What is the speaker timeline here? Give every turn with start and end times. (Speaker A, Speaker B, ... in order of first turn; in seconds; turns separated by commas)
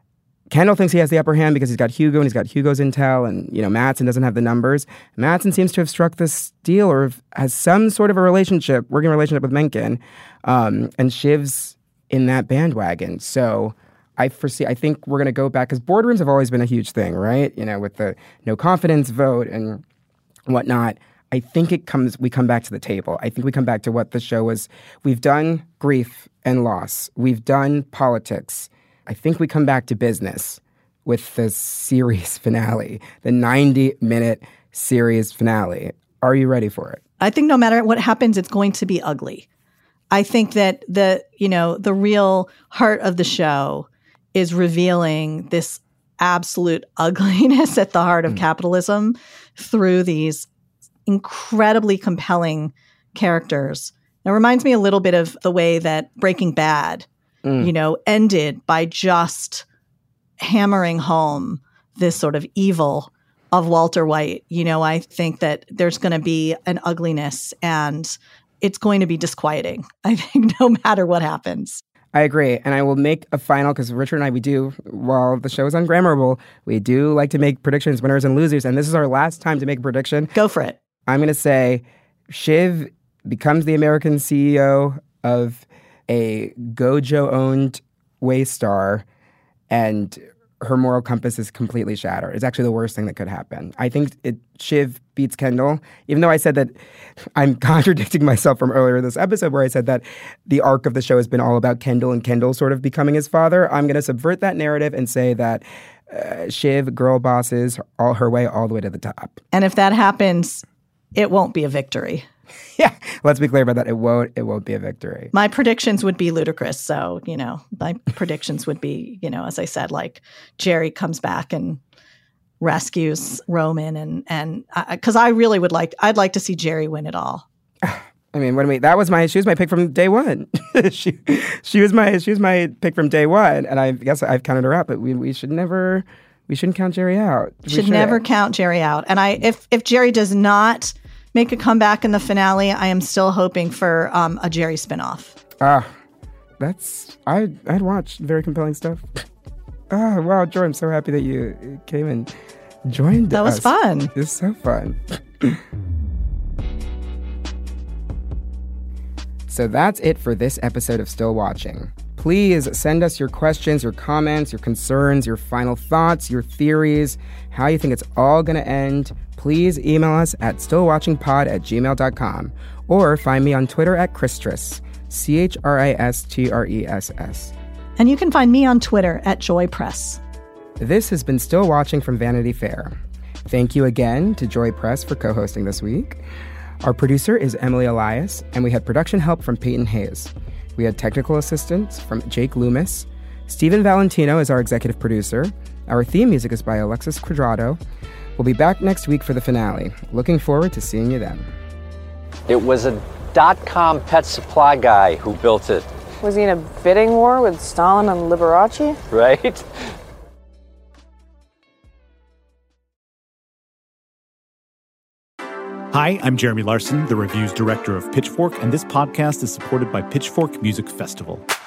Speaker A: 0.5-19.8, Speaker A: 20.5-37.0, Speaker B: 37.2-39.5, Speaker B: 40.1-50.5, Speaker B: 51.1-57.1, Speaker A: 57.4-57.7, Speaker B: 57.6-59.6, Speaker B: 60.4-71.8, Speaker A: 72.1-80.3, Speaker B: 80.3-80.8, Speaker A: 81.1-89.0, Speaker A: 89.7-96.7, Speaker A: 97.3-109.4, Speaker B: 109.5-110.6, Speaker B: 111.1-112.3, Speaker A: 112.8-115.3, Speaker B: 115.3-121.8, Speaker B: 122.6-127.5, Speaker A: 127.8-138.2, Speaker B: 137.7-145.4, Speaker A: 145.6-145.9, Speaker A: 146.6-149.2, Speaker A: 149.9-152.3, Speaker A: 152.9-155.6, Speaker B: 153.3-154.1, Speaker A: 159.5-177.6, Speaker B: 178.0-180.2, Speaker A: 180.8-186.2, Speaker A: 186.8-197.8, Speaker A: 198.4-201.6, Speaker C: 202.5-205.9, Speaker D: 206.2-209.0, Speaker C: 209.1-209.7, Speaker E: 215.9-221.4